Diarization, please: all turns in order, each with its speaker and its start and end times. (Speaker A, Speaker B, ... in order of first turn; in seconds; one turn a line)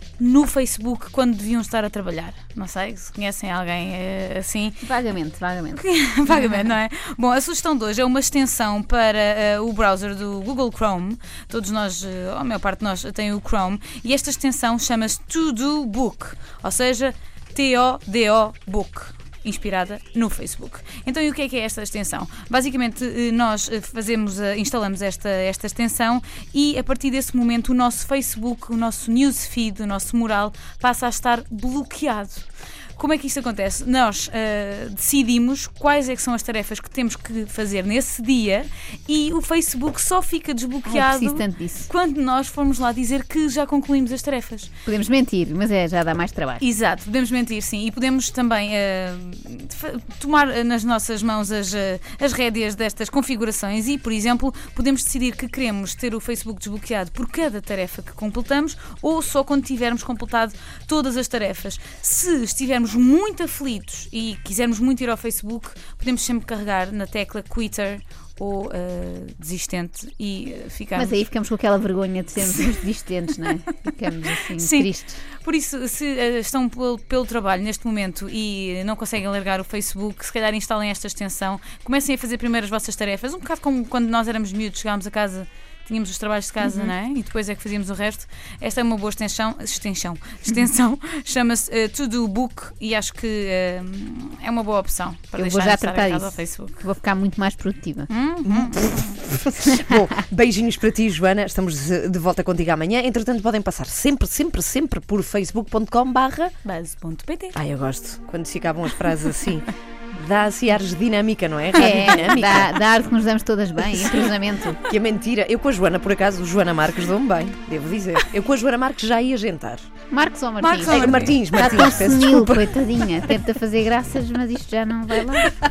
Speaker A: 0.2-4.9
Speaker B: 4.8-6.7
Speaker A: 5.7-44.7
Speaker B: 40.8-41.9
Speaker B: 44.9-46.6
Speaker A: 46.6-71.2
Speaker B: 70.9-75.2
Speaker A: 72.4-72.6
Speaker A: 74.5-96.8
Speaker B: 95.4-98.1
Speaker A: 98.1-99.2
Speaker C: 98.4-106.5
Speaker A: 106.6-107.6
Speaker C: 107.5-112.8
Speaker B: 111.8-114.8
Speaker A: 111.8-112.2
Speaker C: 114.8-119.8
Speaker B: 120.1-125.5
Speaker A: 120.6-121.4
Speaker C: 120.8-122.7